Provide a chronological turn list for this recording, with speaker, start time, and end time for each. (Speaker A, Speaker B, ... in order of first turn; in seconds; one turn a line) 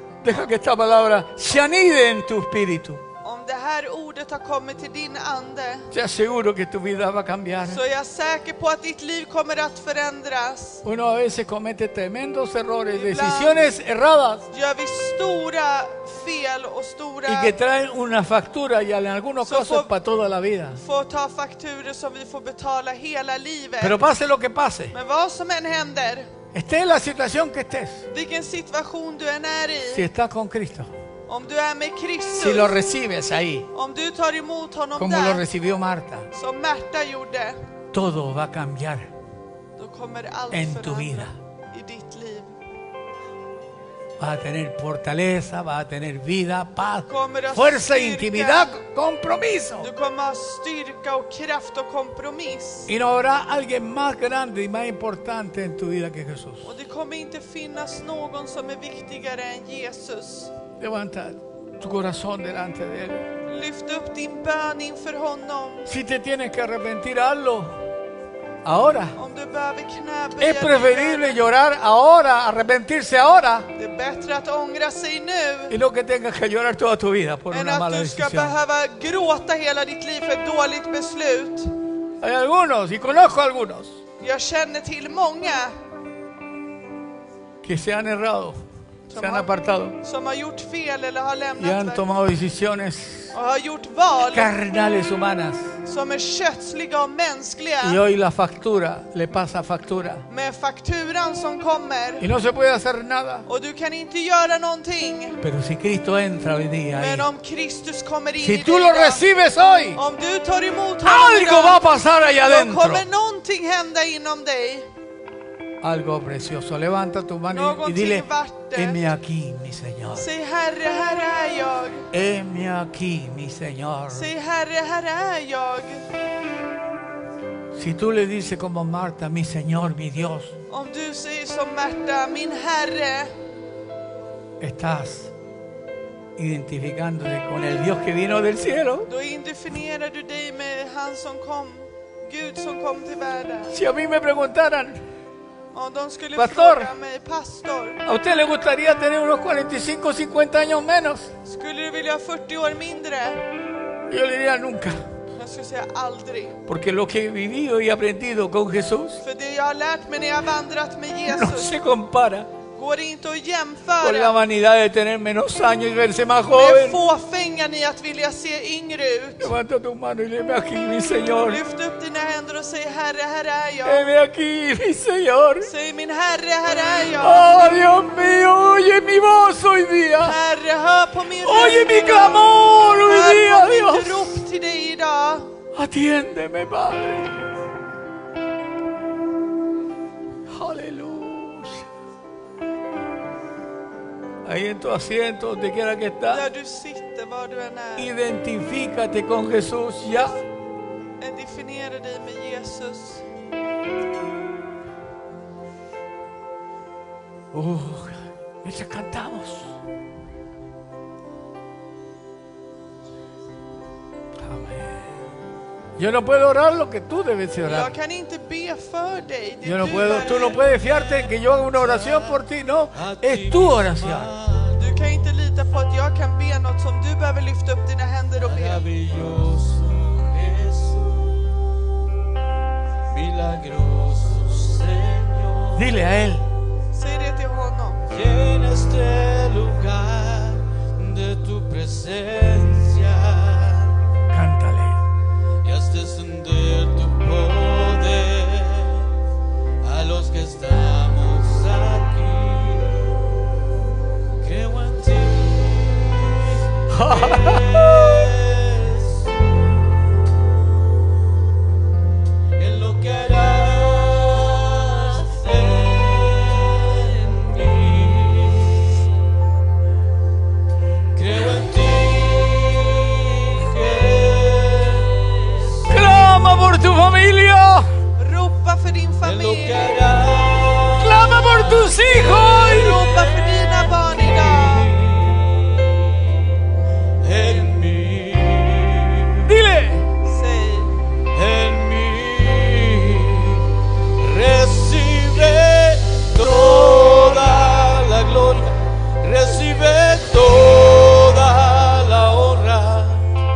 Speaker A: 0.2-3.0
Speaker B: 3.2-5.9
Speaker A: 5.9-7.8
Speaker B: 7.7-10.8
Speaker A: 10.8-14.5
Speaker B: 12.9-13.8
Speaker B: 14.5-17.7
Speaker A: 17.3-20.8
Speaker B: 19.4-20.0
Speaker B: 20.8-24.0
Speaker A: 23.8-24.9
Speaker B: 24.9-26.3
Speaker A: 26.5-28.1
Speaker B: 28.1-30.1
Speaker A: 29.9-30.9
Speaker B: 31.3-32.8
Speaker A: 32.4-33.7
Speaker B: 33.7-35.5
Speaker A: 35.0-36.3
Speaker B: 36.3-37.7
Speaker A: 37.9-39.1
Speaker B: 39.8-42.6
Speaker A: 40.5-41.4
Speaker A: 44.2-49.9
Speaker B: 47.1-48.8
Speaker B: 49.8-52.9
Speaker A: 52.9-56.7
Speaker B: 56.6-60.5
Speaker A: 60.8-63.3
Speaker B: 63.5-65.9
Speaker A: 65.9-67.8
Speaker A: 68.7-69.2
Speaker B: 69.2-71.4
Speaker A: 70.4-73.7
Speaker B: 73.8-75.8
Speaker A: 75.7-78.6
Speaker B: 77.5-81.7
Speaker A: 82.2-84.0
Speaker B: 84.2-85.7
Speaker A: 87.6-88.6
Speaker B: 89.1-92.0
Speaker A: 89.2-90.0
Speaker A: 91.6-93.3
Speaker B: 93.3-94.5
Speaker A: 94.3-95.8
Speaker B: 95.8-98.0
Speaker A: 97.8-100.2
Speaker B: 100.3-102.3
Speaker A: 102.2-103.5
Speaker B: 103.5-105.4
Speaker A: 105.4-107.3
Speaker B: 107.0-109.2
Speaker A: 108.4-110.0
Speaker B: 110.0-111.9
Speaker A: 111.0-113.0
Speaker B: 112.5-114.9
Speaker A: 115.8-120.3
Speaker B: 117.5-119.0
Speaker B: 120.1-122.1
Speaker A: 122.1-124.3
Speaker B: 124.1-126.1
Speaker A: 127.7-130.6
Speaker B: 130.7-133.3
Speaker A: 134.6-135.3
Speaker A: 136.4-139.1
Speaker B: 139.1-143.7
Speaker A: 143.7-145.0
Speaker B: 145.7-148.0
Speaker A: 146.4-146.9
Speaker A: 148.1-151.3
Speaker B: 151.4-153.4
Speaker A: 154.1-155.0
Speaker B: 155.3-156.6
Speaker A: 156.7-159.2
Speaker B: 159.2-161.8
Speaker A: 161.3-162.5
Speaker B: 162.8-164.4
Speaker A: 164.0-167.0
Speaker B: 166.5-169.6
Speaker A: 169.4-171.6
Speaker B: 171.5-174.1
Speaker A: 173.8-175.7
Speaker B: 175.6-177.7
Speaker A: 177.2-180.4
Speaker B: 180.2-185.5
Speaker A: 181.4-184.4
Speaker A: 185.7-187.4
Speaker A: 190.5-191.9
Speaker A: 194.4-196.5
Speaker B: 196.3-198.1
Speaker A: 198.0-200.4
Speaker B: 201.2-203.3
Speaker A: 207.5-209.8
Speaker A: 214.4-215.2
Speaker A: 216.0-217.9
Speaker B: 217.7-220.6
Speaker A: 219.6-224.3
Speaker C: 219.8-222.4
Speaker C: 222.9-225.3
Speaker B: 224.8-228.9
Speaker C: 228.4-231.6
Speaker C: 233.1-236.0
Speaker A: 235.8-236.5
Speaker B: 236.9-238.0
Speaker C: 238.1-244.0
Speaker A: 244.3-245.0
Speaker C: 245.6-249.1
Speaker C: 249.8-253.2
Speaker C: 254.4-259.4
Speaker A: 256.9-257.9
Speaker C: 262.6-269.1
Speaker C: 271.1-276.4
Speaker A: 275.9-277.9
Speaker B: 278.2-280.2
Speaker C: 279.2-286.5
Speaker A: 280.9-283.0
Speaker B: 282.4-284.9
Speaker C: 287.2-289.5
Speaker A: 289.4-290.1
Speaker B: 290.2-290.9
Speaker C: 291.3-303.3